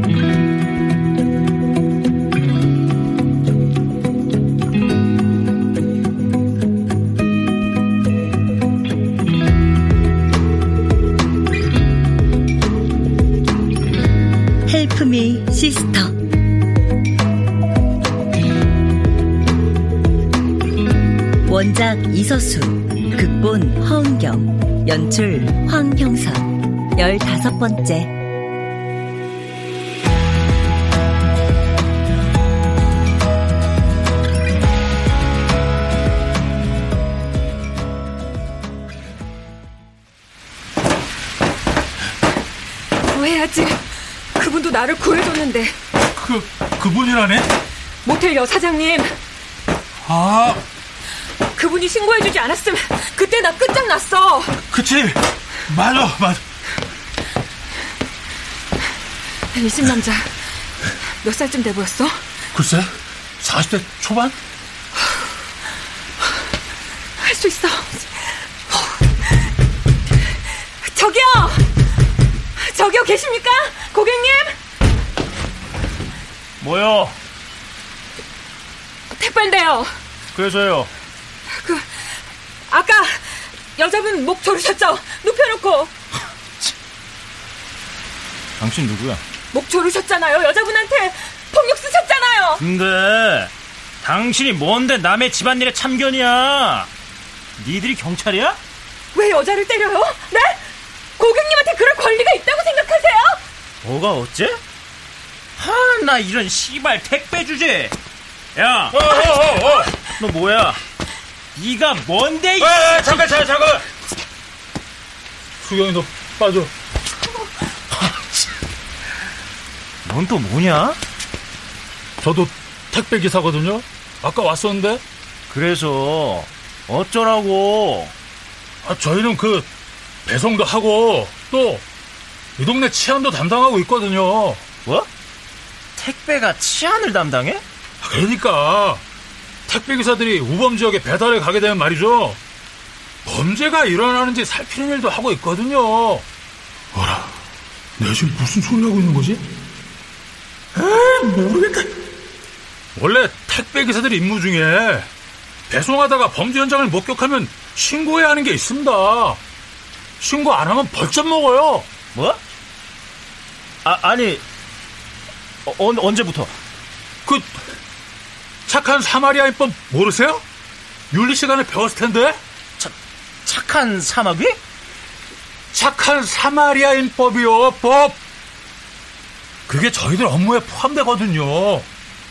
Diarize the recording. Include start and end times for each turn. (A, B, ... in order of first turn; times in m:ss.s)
0:14.7-0:16.1 A
0:21.5-0:28.1 A
0:43.0-0:45.8 B
0:46.2-0:47.5 C
0:48.0-0:49.2 B
0:50.0-0:50.6 C
0:51.5-0:54.6 B
0:54.7-0:56.4 C
0:59.5-1:00.5 B
1:01.2-1:02.2 B
1:02.5-1:04.4 C
1:07.2-1:09.4 B
1:10.6-1:11.7 B
1:12.6-1:14.6 B
1:16.6-1:17.2 D
1:19.2-1:19.9 B
1:20.4-1:20.9 D
1:21.5-1:25.9 B
1:28.6-1:29.2 D
1:29.5-1:32.6 B
1:32.6-1:33.5 D
1:34.0-1:36.9 D
1:37.6-1:38.6 D
1:39.1-1:40.6 B
1:41.2-1:43.4 B
1:43.8-1:44.6 D
1:45.6-1:47.9 D
1:48.6-1:49.4 D
1:48.9-1:49.9 C
1:50.1-1:50.8 D
1:51.6-1:53.3 D
1:52.6-1:53.9 C
1:55.6-1:56.7 C
2:00.1-2:01.0 D
2:02.2-2:05.0 C
2:05.5-2:08.1 D
2:08.8-2:09.7 C
2:10.3-2:11.8 C
2:12.6-2:14.6 C
2:16.0-2:17.6 D
2:18.0-2:19.0 C
2:19.7-2:22.4 C
2:23.2-2:26.2 C
2:26.9-2:27.3 C
2:28.0-2:29.4 C
2:30.8-2:31.8 C
2:33.0-2:35.1 C
2:35.7-2:39.4 C
2:40.2-2:41.9 C
2:42.2-2:42.4 D
2:43.8-2:44.4 D
2:45.7-2:46.5 D
2:47.3-2:47.6 C
2:48.7-2:50.4 C
2:51.1-2:52.4 C
2:52.8-2:54.6 D
2:55.7-2:58.2 C
2:59.7-3:01.9 C